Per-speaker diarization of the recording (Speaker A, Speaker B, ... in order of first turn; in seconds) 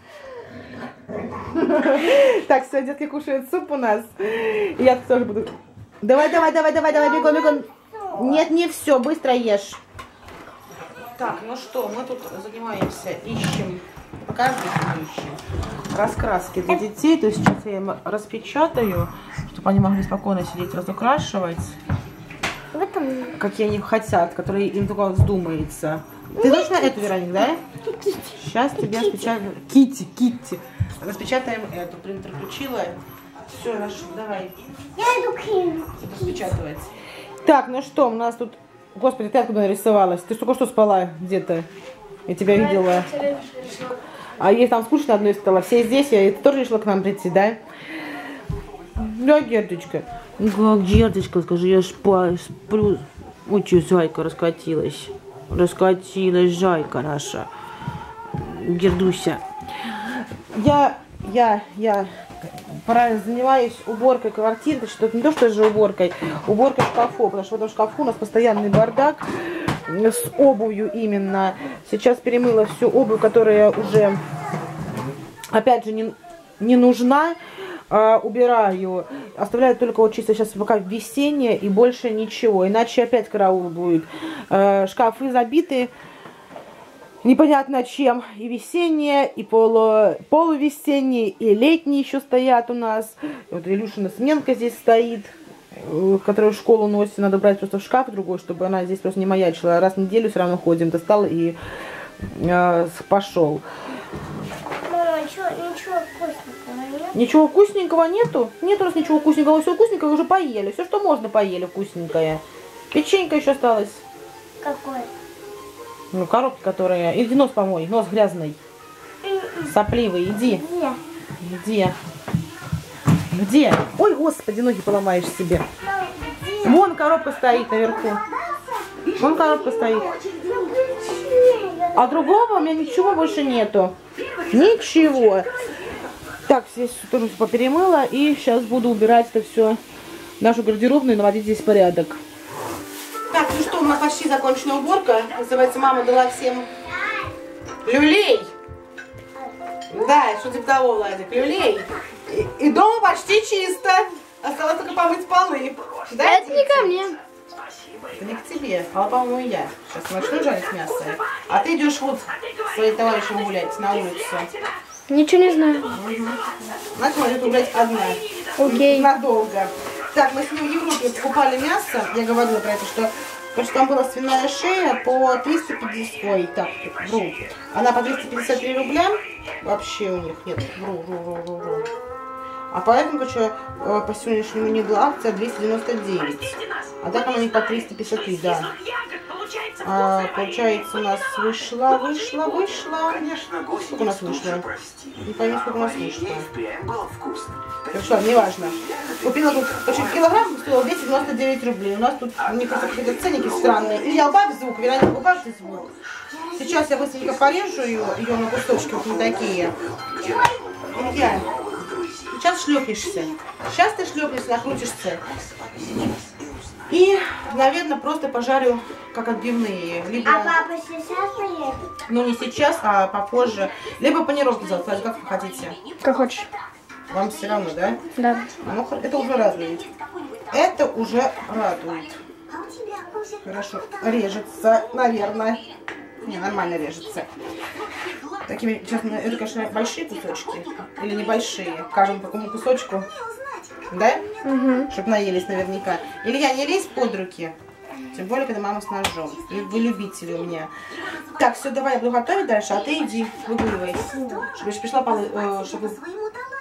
Speaker A: 1.4-9.8, 11.2-15.4, 15.9-21.7, 23.4-27.6, 28.4-34.5, 36.0-36.9, 37.4-41.7, 42.3-43.1, 44.4-47.6, 49.0-57.5, 58.3-60.0, 60.5-74.2, 75.5-77.4, 77.9-85.9, 87.2-101.6, 102.3-103.6, 107.1-114.0, 116.1-118.6, 119.6-120.6, 121.4-122.0, 123.3-125.7, 126.6-128.2, 129.2-130.2, 131.9-133.9, 134.5-135.5, 136.4-139.8, 140.4-142.2, 143.3-146.7, 147.8-148.5, 149.9-157.0, 158.1-164.5, 165.9-166.4, 166.9-181.9, 182.7-188.7, 189.8-194.6, 195.2-196.5, 197.9-205.9, 206.5-209.7, 210.8-211.5, 212.3-215.2, 216.9-220.6, 222.1-225.8, 227.1-228.0, 228.6-229.9, 230.5-232.2, 233.4-235.6, 236.2-237.3, 238.4-243.1, 243.9-244.3, 244.9-247.5, 248.1-250.7, 251.3-256.0
Speaker B: 6.6-8.5, 22.7-23.4, 26.4-27.2, 27.8-29.3, 35.0-36.5, 104.8-107.2, 114.6-115.1, 119.2-119.7, 120.3-121.0, 125.8-126.8, 127.5-133.2, 220.2-221.9, 232.6-233.4, 254.1-254.4, 256.0-256.5
Speaker C: 42.5-44.0, 156.2-157.2, 165.1-165.9, 168.6-169.1, 226.0-226.5, 228.2-228.5, 244.4-244.9